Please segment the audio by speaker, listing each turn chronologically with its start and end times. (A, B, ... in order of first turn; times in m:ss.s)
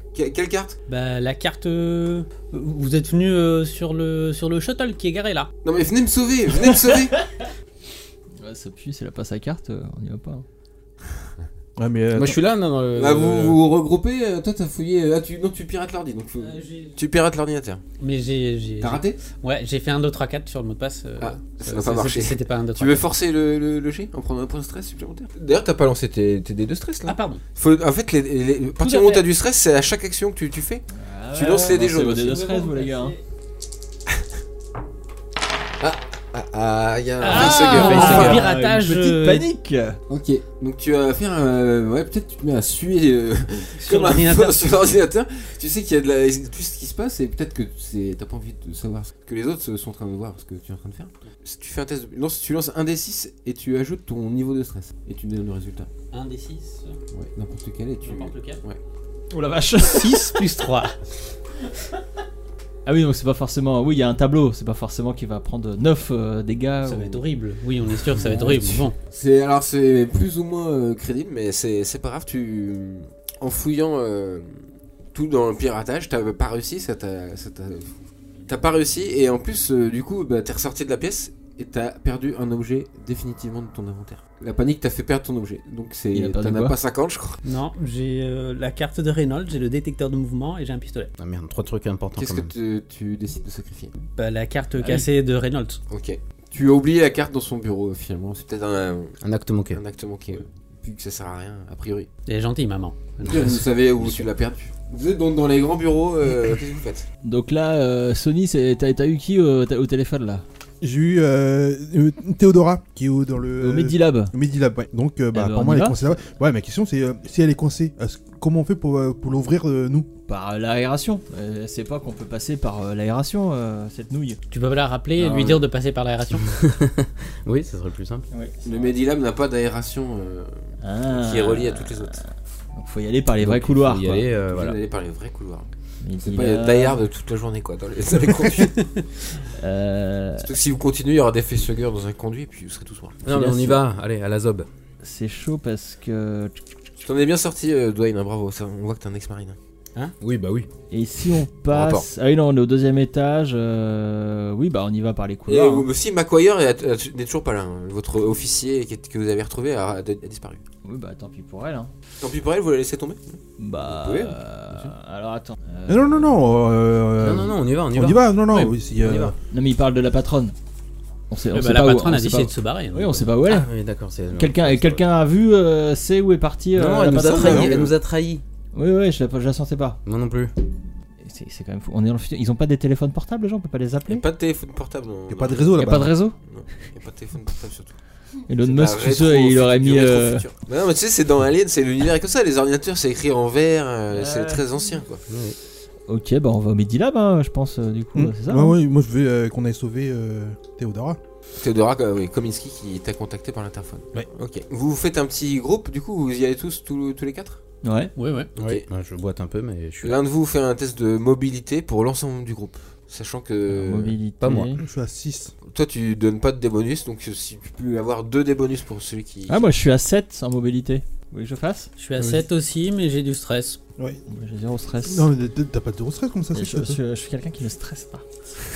0:00.1-0:00.8 A
0:00.9-0:05.5 B
0:05.6-0:07.2 A
0:06.7-0:07.5 C
0:08.4-0:10.4 C
0:11.8-0:12.4 D
0:12.2-0:13.6 E
0:12.9-0:17.8 A
0:16.4-0:17.0 B
0:18.0-0:23.1 B
0:18.8-0:19.2 A
0:21.2-0:32.4 A
0:27.1-0:27.4 B
0:28.8-0:29.3 B
0:30.9-0:33.2 C
0:32.3-0:33.2 B
0:35.8-0:38.5 A
0:37.2-0:39.5 B
0:37.2-0:40.0 C
0:38.0-0:38.4 E
0:40.1-0:55.9 A
0:43.8-0:44.8 B
0:56.1-0:57.0 B
0:57.1-0:58.8 A
0:58.0-0:58.6 B
0:59.3-1:00.4 C
0:59.8-1:01.0 B
1:02.9-1:07.2 C
1:06.8-1:09.0 B
1:09.1-1:14.6 A
1:15.1-1:17.9 A
1:18.5-1:27.4 A
1:26.1-1:26.8 C
1:27.4-1:31.1 B
1:31.2-1:32.5 E
1:32.2-1:33.9 A
1:34.2-1:35.8 B
1:34.8-1:35.1 C
1:35.9-1:39.2 A
1:39.2-1:39.8 E
1:39.7-1:42.1 A
1:42.3-1:43.7 B
1:43.2-1:47.1 A
1:47.2-1:50.4 C
1:50.8-2:00.1 D
1:53.6-1:54.3 C
1:55.3-1:56.1 C
2:00.3-2:04.4 C
2:04.5-2:06.6 B
2:06.4-2:08.3 E
2:08.3-2:08.9 C
2:08.6-2:10.6 A
2:10.8-2:14.3 C
2:11.1-2:12.2 A
2:13.4-2:14.8 E
2:14.3-2:15.7 A
2:16.0-2:17.0 C
2:16.2-2:18.9 A
2:19.6-2:20.5 C
2:20.4-2:23.2 A
2:23.2-2:24.7 E
2:23.3-2:23.8 C
2:25.0-2:26.6 C
2:27.0-2:29.6 A
2:30.0-2:30.7 E
2:30.9-2:35.9 C
2:31.7-2:32.1 A
2:35.5-2:40.6 A
2:40.8-2:41.9 C
2:42.2-2:43.4 A
2:43.6-2:46.4 C
2:43.9-2:44.9 A
2:45.9-2:49.4 D
2:47.2-2:49.4 E
2:49.5-2:50.6 C
2:51.3-2:53.7 C
2:51.5-2:53.3 B
2:53.4-2:55.0 E
2:54.3-2:57.7 C
2:56.7-2:58.4 E
2:57.1-2:57.9 A
2:57.4-2:57.8 D
2:58.7-3:00.0 C
3:00.0-3:00.5 E
3:01.2-3:04.2 C
3:04.1-3:08.0 A
3:05.3-3:06.1 D
3:05.8-3:06.4 C
3:08.5-3:10.4 C
3:08.6-3:15.2 A
3:14.1-3:14.6 C
3:15.3-3:15.6 E
3:16.1-3:18.8 C
3:18.1-3:21.2 D
3:21.6-3:27.6 A
3:27.8-3:28.1 C
3:28.2-3:28.5 B
3:28.6-3:30.2 E
3:28.6-3:28.8 A
3:30.0-3:34.2 A
3:33.7-3:34.8 C
3:34.4-3:34.8 E
3:34.8-3:35.5 D
3:35.6-3:39.7 A
3:39.5-3:41.9 C
3:42.0-3:43.8 B
3:44.3-3:45.3 C
3:45.0-3:47.0 D
3:46.5-3:48.2 C